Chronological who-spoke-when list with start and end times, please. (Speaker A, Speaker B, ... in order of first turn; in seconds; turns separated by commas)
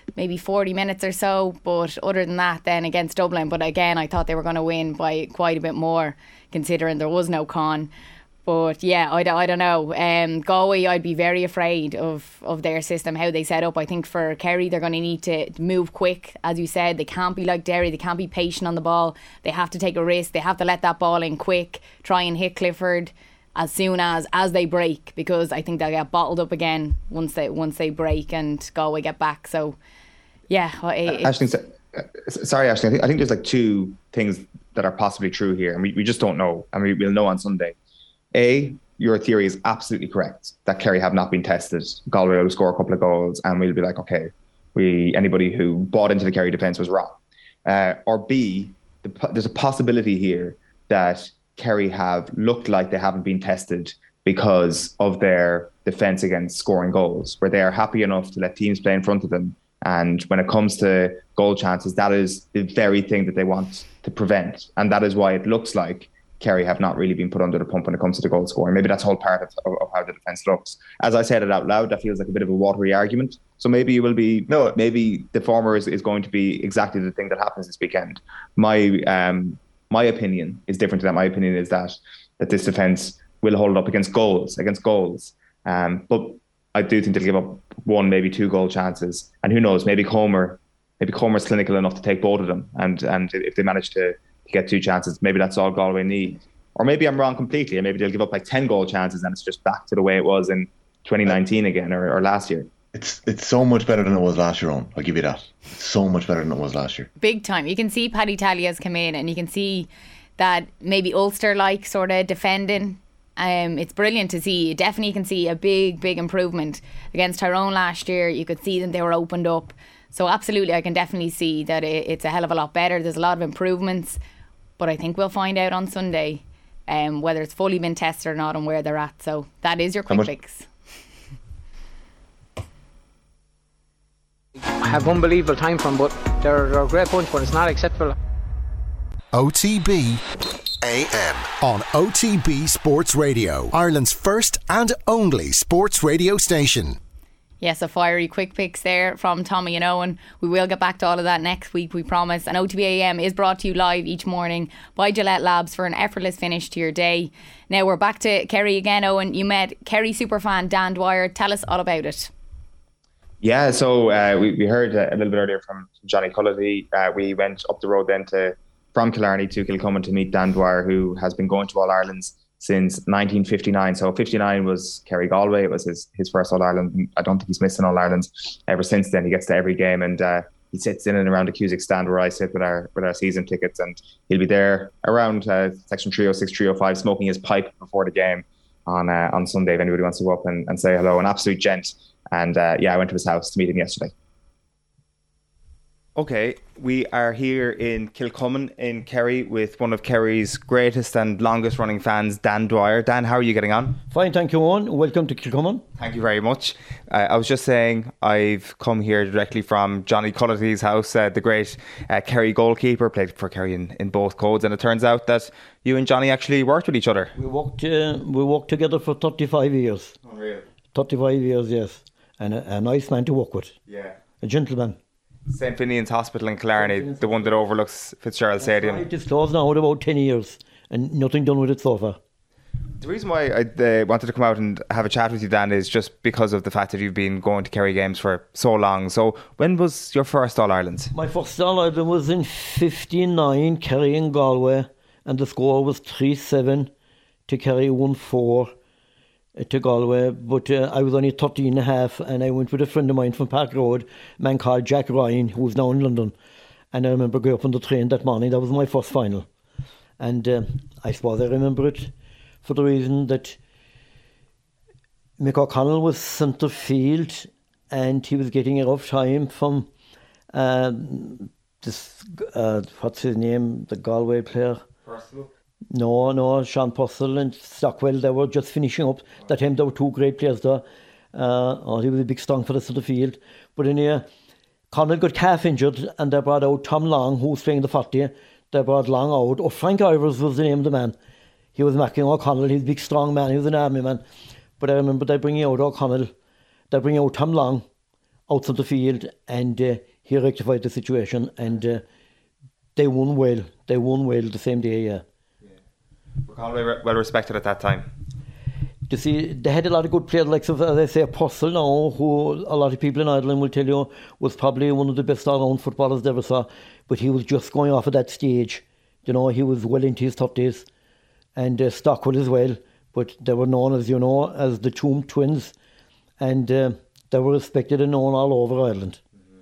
Speaker A: 0.1-7.9, Speaker A: 8.4-29.8, Speaker A: 30.5-31.4, Speaker B: 31.1-37.8, Speaker B: 38.3-102.7, Speaker C: 102.9-107.1, Speaker A: 107.2-124.2, Speaker A: 124.8-130.7, Speaker D: 134.8-138.2, Speaker E: 139.3-140.2, Speaker E: 140.8-147.0, Speaker A: 147.6-162.3, Speaker B: 163.4-194.1, Speaker B: 196.2-204.0, Speaker F: 204.1-205.8, Speaker B: 206.0-217.3, Speaker F: 217.4-220.1, Speaker B: 220.2-220.7, Speaker F: 220.9-223.7, Speaker B: 223.9-224.2, Speaker F: 224.4-224.9, Speaker B: 225.5-229.1, Speaker F: 226.8-227.4, Speaker F: 228.6-232.2, Speaker B: 233.0-241.1, Speaker F: 241.1-246.9, Speaker F: 247.5-248.7, Speaker F: 249.6-256.3, Speaker F: 256.9-259.4, Speaker F: 260.2-262.1, Speaker F: 262.6-263.6, Speaker F: 265.4-269.9, Speaker F: 270.5-274.8, Speaker B: 275.0-275.5, Speaker F: 275.9-280.8, Speaker F: 281.3-284.2, Speaker F: 284.9-291.1, Speaker F: 291.8-294.2, Speaker F: 294.8-296.3, Speaker F: 296.9-297.8, Speaker F: 298.5-302.0, Speaker F: 302.9-305.2, Speaker B: 306.5-308.1, Speaker F: 309.1-320.8, Speaker F: 321.6-325.7, Speaker F: 326.4-329.2